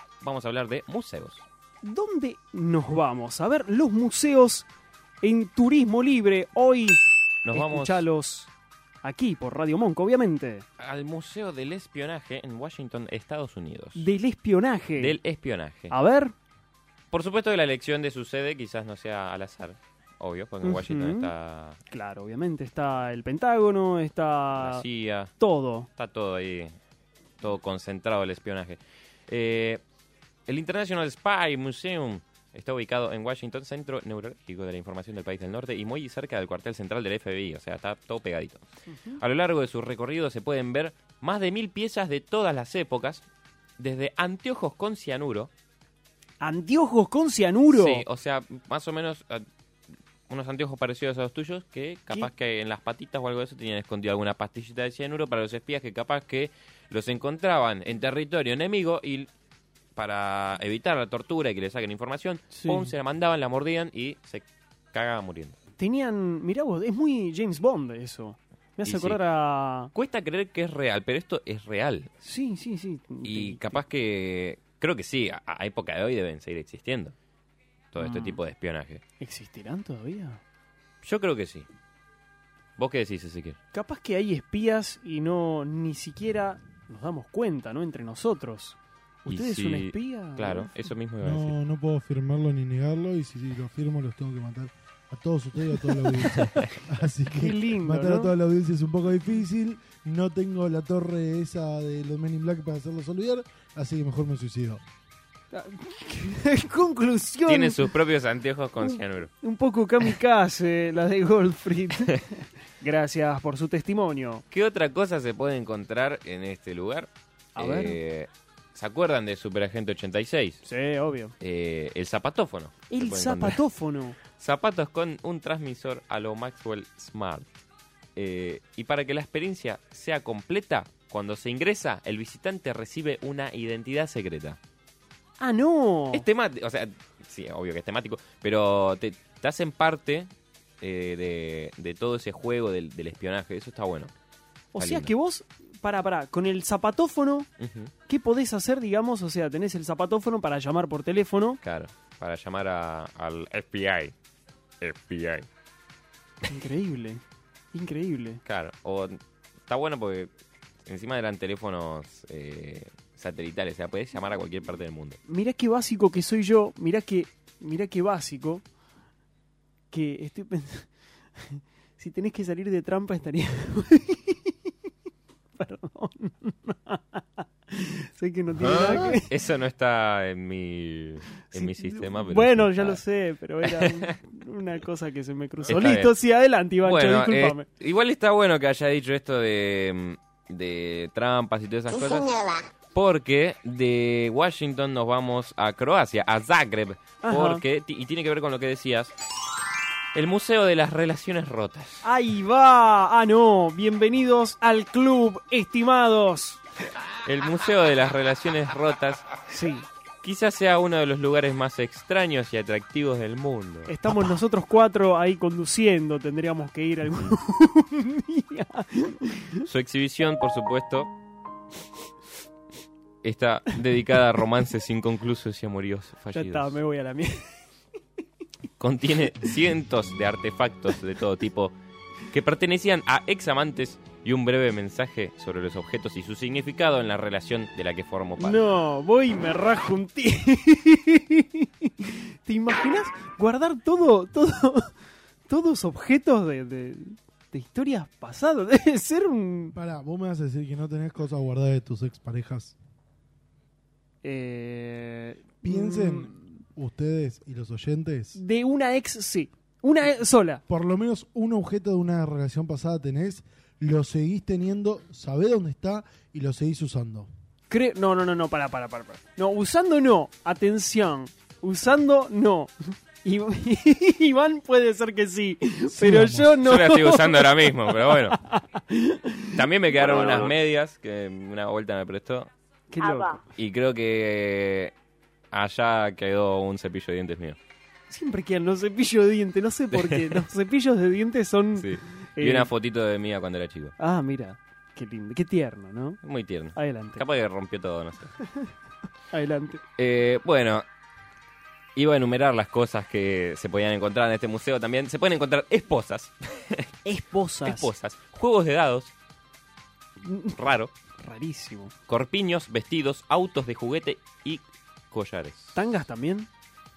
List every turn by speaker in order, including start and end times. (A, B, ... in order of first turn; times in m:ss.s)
0:00.2-0:01.4 A
0:01.8-0:04.7 B
0:05.2-0:07.0 B
0:07.4-0:08.0 A
0:07.5-0:08.5 B
0:09.0-0:10.6 B
0:10.8-0:14.0 A
0:14.0-0:15.2 B
0:15.0-0:15.9 A
0:15.9-0:16.3 B
0:17.1-0:21.8 A
0:20.6-0:21.3 B
0:21.9-0:24.8 B
0:24.5-0:25.3 A
0:25.4-0:25.9 B
0:26.0-0:26.7 A
0:27.4-0:29.8 A
0:30.5-0:38.6 A
0:39.2-0:43.2 A
0:43.8-0:45.5 A
0:46.4-0:48.0 B
0:47.7-0:49.4 A
0:50.3-0:59.3 A
1:00.0-1:05.6 A
1:02.5-1:02.9 B
1:05.8-1:09.9 B
1:08.8-1:09.2 A
1:09.9-1:12.1 A
1:12.2-1:13.8 B
1:13.2-1:17.1 A
1:17.9-1:19.0 A
1:18.0-1:18.4 B
1:19.2-1:20.4 B
1:21.0-1:21.6 A
1:22.8-1:23.6 A
1:23.7-1:30.7 B
1:29.3-1:31.6 A
1:31.2-1:44.8 C
1:36.4-1:36.7 A
1:37.3-1:38.3 B
1:45.5-1:48.0 B
1:47.4-1:49.3 A
1:48.8-1:54.4 B
1:54.5-2:00.6 A
1:57.6-1:58.0 B
2:00.6-2:01.3 B
2:01.4-2:03.6 A
2:02.9-2:04.2 B
2:04.3-2:07.5 A
2:08.2-2:14.6 A
2:15.4-2:16.2 B
2:16.1-2:20.3 A
2:20.8-2:24.1 A
2:24.7-2:27.5 B
2:24.8-2:25.1 A
2:27.6-2:27.9 A
2:28.0-2:31.6 B
2:31.6-2:34.1 A
2:34.8-2:35.4 A
2:36.5-2:38.4 B
2:38.4-2:40.3 A
2:40.8-2:45.2 A
2:45.3-2:48.6 B
2:49.9-2:54.7 B
2:55.6-2:59.3 B
2:58.6-3:03.0 A
3:01.5-3:07.6 B
3:03.6-3:04.1 A
3:05.6-3:06.1 A
3:06.8-3:19.1 A
3:17.2-3:17.6 B
3:20.1-3:22.0 A
3:22.0-3:26.6 B
3:27.2-3:29.3 A
3:29.5-3:29.8 B
3:30.2-3:34.2 A
3:33.9-3:39.6 B
3:39.6-3:41.1 A
3:43.2-3:46.8 A
3:46.3-3:47.6 B
3:48.8-3:51.7 A
3:52.3-3:58.6 A
3:58.4-4:04.9 B
4:05.5-4:09.8 B
4:09.7-4:12.8 C
4:14.2-4:16.5 B
4:15.6-4:18.4 C
4:18.4-4:20.6 B
4:20.7-4:27.3 C
4:27.7-4:40.5 B
4:35.9-4:36.5 C
4:36.6-4:38.4 A
4:39.5-4:42.5 A
4:42.9-4:43.4 B
4:43.5-4:44.9 A
4:45.5-4:47.6 A
4:48.1-4:52.7 B
4:49.9-4:50.4 A
4:51.8-4:53.9 A
4:54.0-4:56.2 B
4:56.2-4:58.3 A
4:56.8-4:57.2 B
4:58.4-4:58.7 B
4:59.3-4:59.8 B
5:00.0-5:00.8 A
5:02.0-5:06.9 A
5:07.0-5:07.9 B
5:07.6-5:09.1 A
5:10.2-5:10.5 B
5:10.5-5:10.9 A
5:11.2-5:11.9 B
5:12.1-5:15.8 A
5:15.7-5:16.5 B